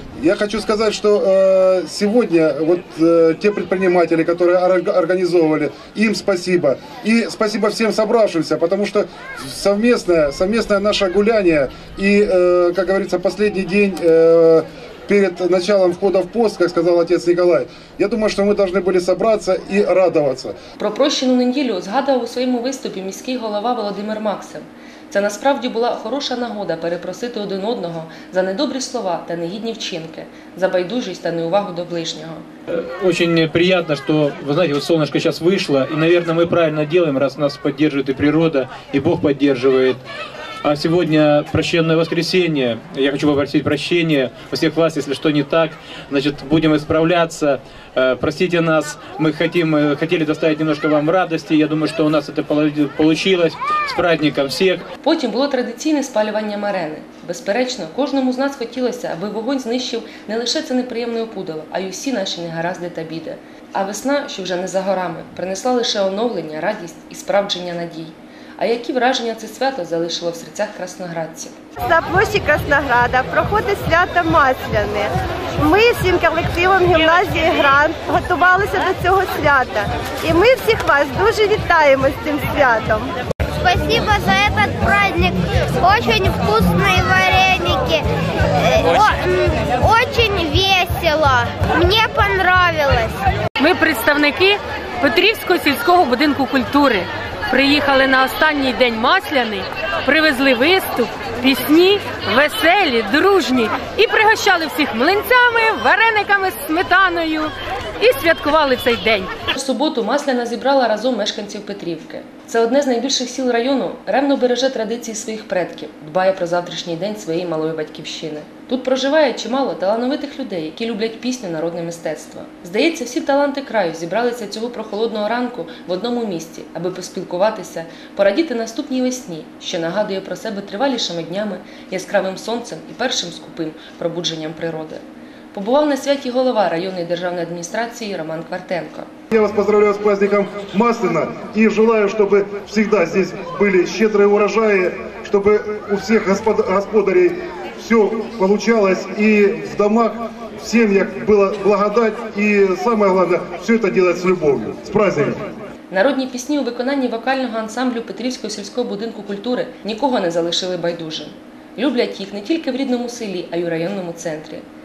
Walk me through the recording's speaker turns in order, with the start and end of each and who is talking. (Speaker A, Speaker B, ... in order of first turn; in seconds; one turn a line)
Speaker A: 0.2-20.5
Speaker B: 20.8-32.4
Speaker C: 32.7-40.0
Speaker C: 40.6-54.8
Speaker B: 55.0-71.5
Speaker D: 71.8-83.1
Speaker E: 83.6-88.0
Speaker E: 88.6-93.2
Speaker F: 93.6-109.3
Speaker B: 109.5-135.0
Speaker B: 135.5-139.1
Speaker A: 139.3-155.4
Speaker B: 155.9-164.6